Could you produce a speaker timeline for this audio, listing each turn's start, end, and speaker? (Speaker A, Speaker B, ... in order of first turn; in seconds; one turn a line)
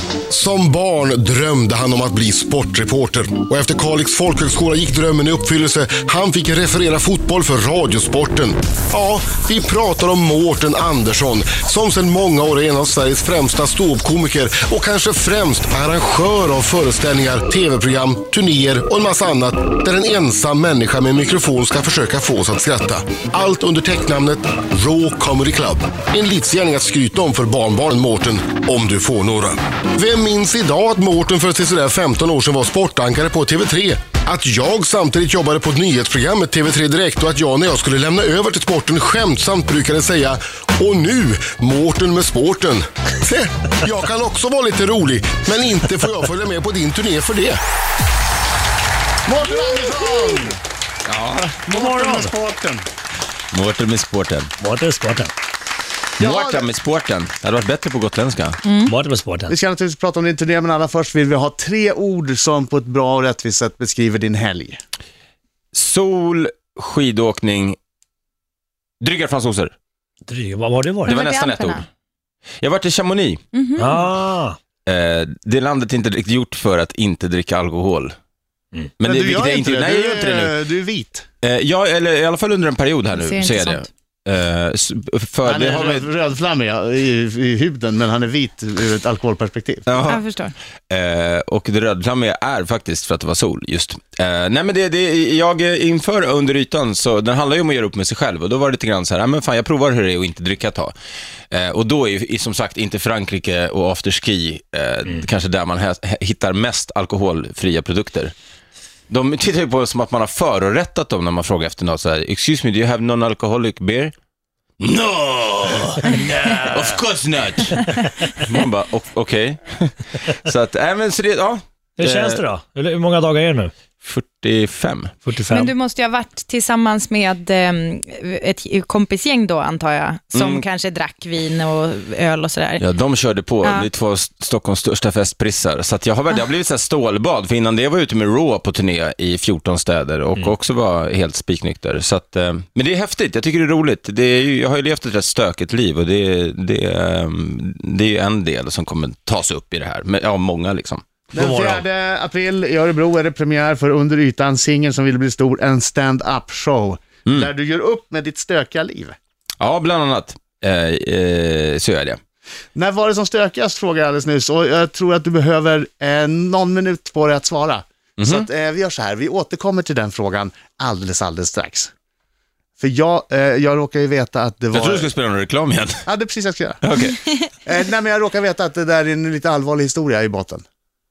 Speaker A: 0.3-47.6
Speaker B: 49.3-50.5
Speaker C: 51.0-51.7
Speaker B: 51.7-52.8
Speaker D: 51.7-52.3
Speaker C: 53.5-54.5
Speaker D: 54.6-55.3
Speaker C: 56.2-58.6
Speaker B: 56.2-56.7
Speaker E: 58.6-58.9
Speaker D: 58.8-59.5
Speaker B: 59.5-64.8
Speaker C: 65.7-67.8
Speaker C: 69.0-69.7
Speaker D: 70.3-71.2
Speaker E: 71.0-71.8
Speaker C: 71.1-71.8
Speaker C: 72.6-73.4
Speaker E: 73.5-74.0
Speaker D: 73.8-74.6
Speaker C: 74.8-78.1
Speaker C: 79.0-80.5
Speaker B: 79.0-81.2
Speaker C: 81.4-86.1
Speaker E: 83.1-83.9
Speaker B: 85.4-89.9
Speaker C: 89.9-90.2
Speaker E: 90.0-90.5
Speaker C: 90.9-100.9
Speaker C: 101.5-108.3
Speaker C: 109.1-114.1
Speaker C: 114.8-122.4
Speaker D: 122.0-123.7
Speaker C: 124.0-125.1
Speaker D: 125.2-125.7
Speaker E: 125.5-132.8
Speaker C: 130.3-130.7
Speaker C: 132.8-151.0
Speaker B: 151.3-159.2
Speaker D: 151.3-151.8
Speaker C: 159.6-162.2
Speaker B: 162.8-171.9
Speaker C: 168.2-168.5
Speaker B: 172.8-175.1
Speaker C: 174.7-176.1
Speaker B: 176.1-176.8
Speaker C: 176.8-177.2
Speaker B: 177.6-180.6